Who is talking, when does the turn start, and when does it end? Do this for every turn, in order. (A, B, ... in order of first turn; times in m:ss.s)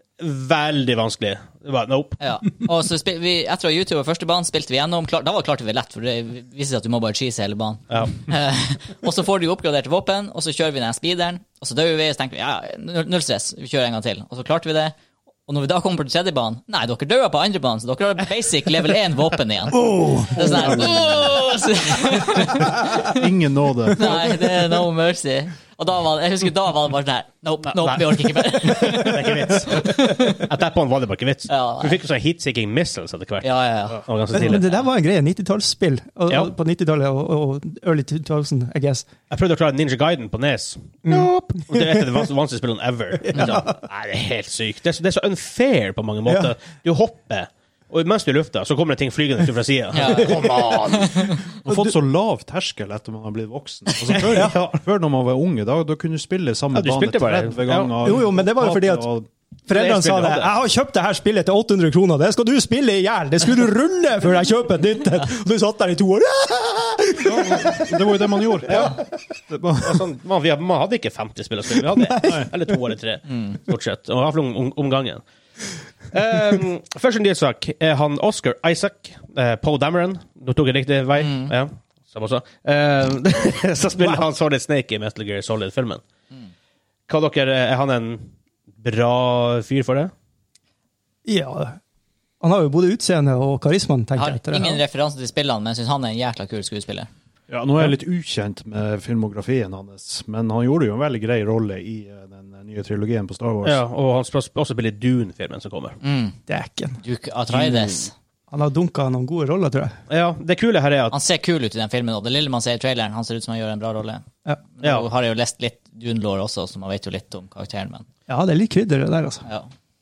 0:00.2-0:02.2 A
0:02.2-0:14.9 B
0:07.9-0:08.2 A
0:15.5-0:23.2 B
0:19.7-0:20.8 C
0:20.4-0:20.8 D
0:22.6-0:24.6 D
0:23.9-0:30.4 B
0:27.7-0:33.5 A
0:31.5-0:32.0 B
0:33.4-0:34.6 B
0:34.0-0:34.7 A
0:34.3-0:39.1 C
0:39.3-0:51.2 A
0:41.0-0:42.2 C
0:43.3-0:43.8 C
0:46.3-0:46.5 C
0:49.9-0:51.4 B
0:51.6-0:59.3 D
0:51.7-0:51.9 C
0:54.3-0:54.6 C
0:54.4-0:54.6 A
0:56.7-0:57.9 A
0:58.0-0:59.1 C
0:59.7-1:09.0 C
0:59.7-1:00.5 A
1:07.2-1:08.9 D
1:08.7-1:09.0 A
1:09.5-1:10.0 D
1:09.8-1:15.2 A
1:11.8-1:12.8 C
1:13.3-1:13.6 B
1:16.1-1:26.0 A
1:21.2-1:21.5 B
1:24.0-1:24.2 C
1:27.1-1:28.3 A
1:28.8-1:30.1 A
1:31.2-1:31.8 C
1:32.4-1:34.8 C
1:34.2-1:37.1 B
1:37.5-1:43.8 D
1:43.6-1:46.0 A
1:46.0-1:46.4 B
1:46.5-1:47.0 C
1:47.0-1:48.1 B
1:47.5-1:48.1 A
1:48.5-1:50.0 C
1:50.1-1:51.2 A
1:51.1-1:58.0 B
1:58.3-1:59.4 C
1:59.4-1:59.7 B